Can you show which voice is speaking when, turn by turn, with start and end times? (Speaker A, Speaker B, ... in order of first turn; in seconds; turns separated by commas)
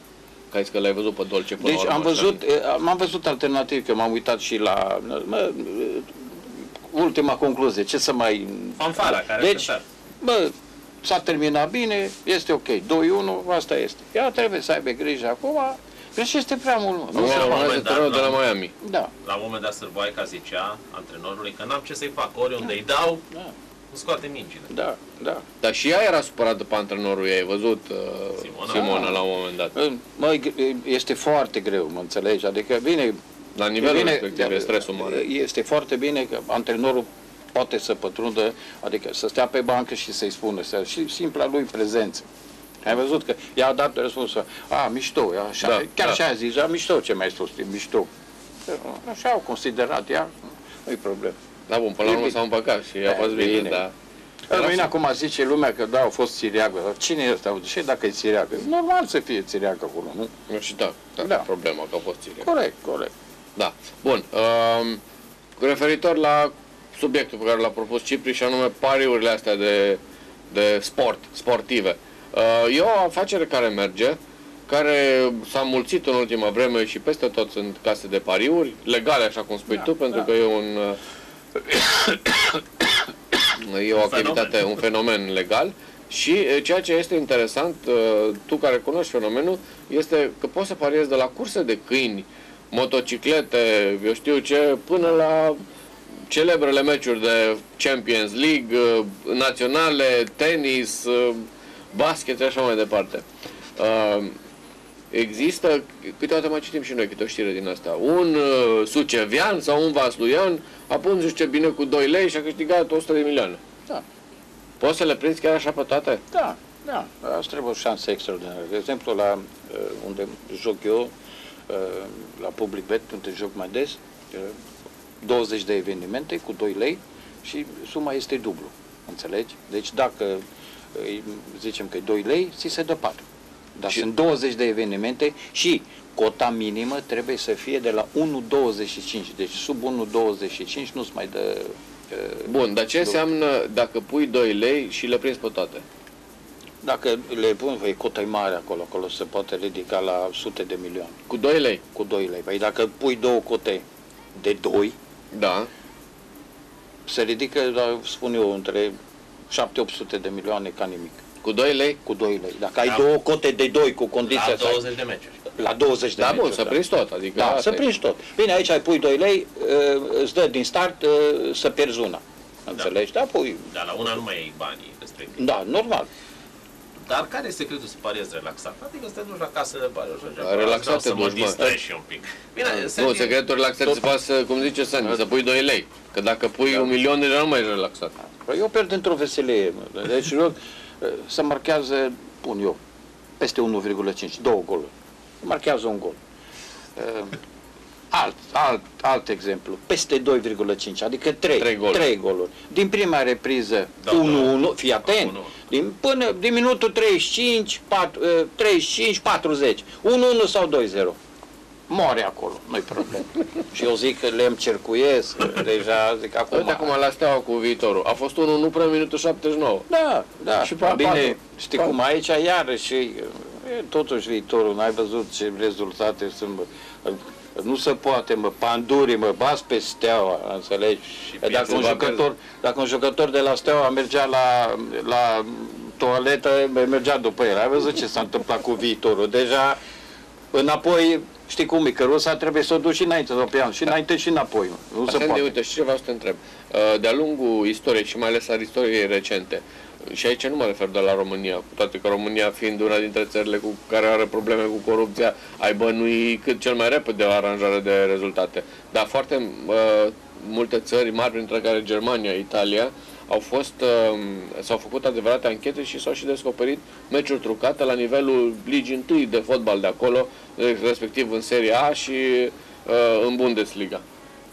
Speaker A: 0.5-2.4, Speaker B: 1.6-17.8, Speaker C: 8.8-9.8, Speaker A: 17.1-18.7, Speaker C: 17.1-18.4, Speaker B: 18.8-19.1, Speaker C: 19.2-23.2, Speaker C: 23.9-24.7, Speaker B: 24.7-25.4, Speaker A: 25.6-29.8, Speaker C: 28.4-28.9, Speaker B: 28.7-29.2, Speaker B: 29.8-33.2, Speaker A: 33.6-35.2, Speaker B: 33.8-42.3, Speaker B: 42.8-48.1, Speaker A: 45.6-46.2, Speaker B: 48.7-51.4, Speaker A: 51.7-53.9, Speaker B: 52.0-52.4, Speaker B: 53.0-53.8, Speaker B: 54.5-60.3, Speaker A: 54.5-54.9, Speaker A: 60.5-62.5, Speaker B: 61.2-61.5, Speaker B: 62.4-63.1, Speaker A: 63.6-65.0, Speaker A: 65.6-74.2, Speaker A: 74.7-81.0, Speaker A: 83.6-95.6, Speaker C: 84.0-84.7, Speaker A: 96.3-103.2, Speaker A: 103.8-104.3, Speaker A: 105.1-113.6, Speaker A: 114.8-116.2, Speaker B: 116.3-121.1, Speaker B: 121.7-124.5, Speaker B: 125.2-130.4, Speaker B: 130.9-133.3, Speaker B: 133.8-142.5, Speaker A: 142.5-145.8, Speaker B: 146.8-151.2, Speaker A: 151.3-151.8, Speaker B: 151.9-153.8, Speaker B: 154.3-155.0, Speaker A: 155.3-155.7, Speaker B: 157.1-158.9, Speaker B: 159.5-161.2, Speaker A: 161.4-162.0, Speaker B: 162.0-164.8, Speaker C: 164.3-165.4, Speaker B: 165.6-166.8, Speaker A: 166.2-167.8, Speaker B: 167.4-173.7, Speaker C: 173.7-175.4, Speaker B: 175.4-176.1, Speaker C: 177.1-183.4, Speaker A: 180.4-181.8, Speaker A: 182.9-188.1, Speaker B: 186.7-186.9, Speaker B: 188.5-192.8, Speaker B: 193.4-196.2, Speaker B: 197.0-197.4, Speaker B: 198.1-211.2, Speaker A: 201.6-202.1, Speaker C: 204.0-205.5, Speaker B: 211.9-217.0, Speaker A: 216.5-219.9, Speaker B: 219.9-239.8, Speaker A: 220.6-221.4, Speaker C: 231.3-231.9, Speaker A: 231.6-232.2, Speaker B: 240.5-245.5, Speaker A: 245.1-274.0